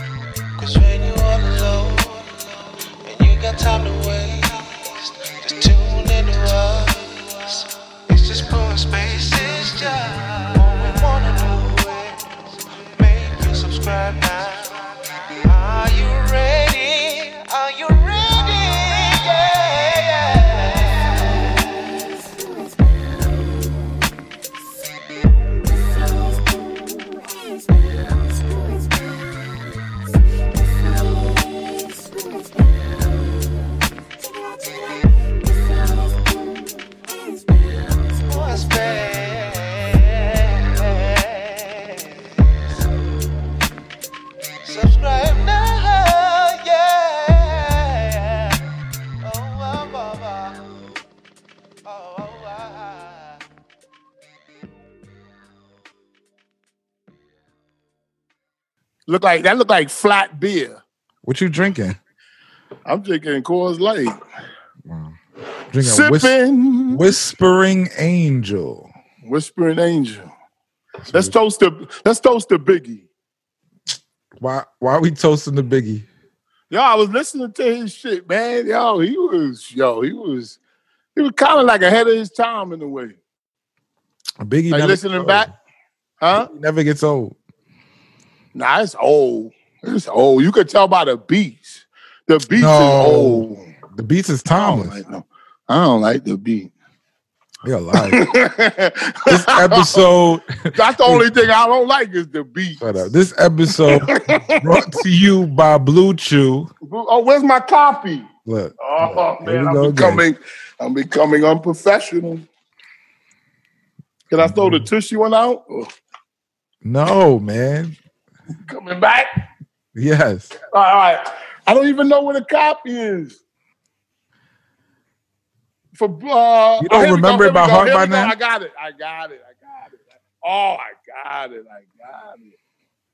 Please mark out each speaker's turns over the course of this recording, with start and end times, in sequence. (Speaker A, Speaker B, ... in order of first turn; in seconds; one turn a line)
Speaker A: 0.6-12.3
Speaker A: 12.9-14.8
Speaker A: 15.4-21.6
Speaker A: 38.2-42.1
Speaker A: 44.6-48.6
Speaker A: 49.2-50.6
Speaker A: 51.8-53.4
Speaker B: 59.1-60.8
Speaker C: 61.2-62.0
Speaker B: 62.9-64.2
Speaker C: 64.8-65.2
Speaker C: 65.7-66.3
Speaker B: 65.8-67.0
Speaker C: 66.9-68.9
Speaker B: 69.2-70.3
Speaker C: 71.0-71.3
Speaker B: 71.1-73.1
Speaker C: 74.4-76.0
Speaker B: 76.7-80.6
Speaker B: 81.2-83.2
Speaker C: 84.4-85.5
Speaker B: 84.7-85.5
Speaker B: 86.2-86.5
Speaker C: 86.3-87.3
Speaker B: 88.5-93.7
Speaker C: 92.5-95.0
Speaker B: 94.5-96.7
Speaker C: 97.6-98.3
Speaker B: 98.0-100.0
Speaker C: 99.3-101.2
Speaker B: 100.7-102.8
Speaker C: 102.8-106.7
Speaker B: 103.8-104.8
Speaker B: 106.8-108.3
Speaker C: 108.5-110.2
Speaker B: 108.8-112.5
Speaker B: 114.3-115.9
Speaker C: 114.4-114.9
Speaker C: 116.8-118.0
Speaker B: 118.7-119.4
Speaker C: 119.9-120.5
Speaker B: 120.7-123.4
Speaker B: 125.9-132.5
Speaker C: 126.8-128.3